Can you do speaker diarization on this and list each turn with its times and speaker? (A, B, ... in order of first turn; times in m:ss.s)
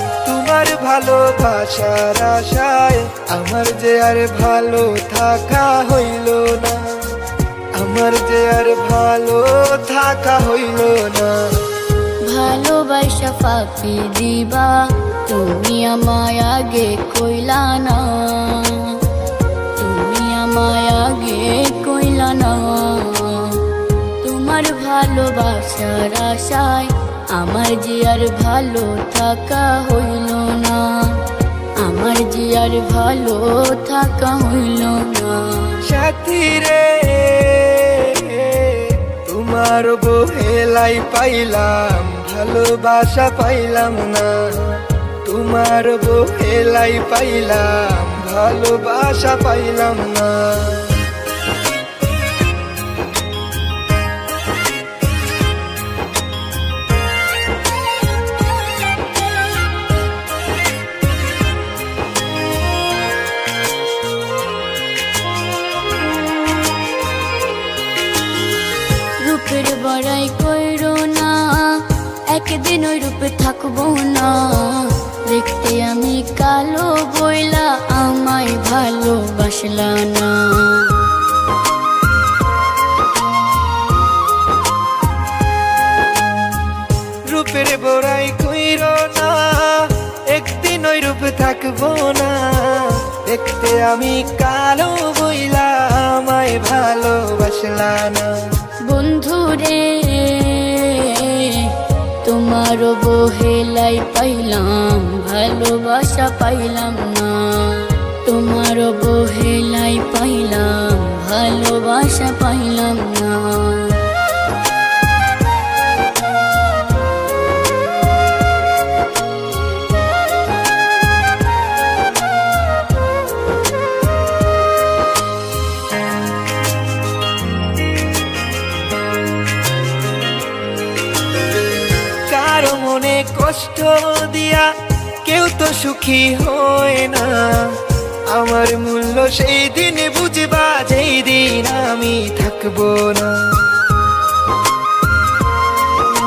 0:00.2-0:07.2 A
0:07.7-0:11.6 A
0:12.2-0:19.1 B
0:19.8-0:35.8 B
0:35.8-0:51.0 A
1:09.2-1:21.1 B
1:27.2-1:38.6 A
1:38.8-1:54.1 B
2:12.2-2:23.7 A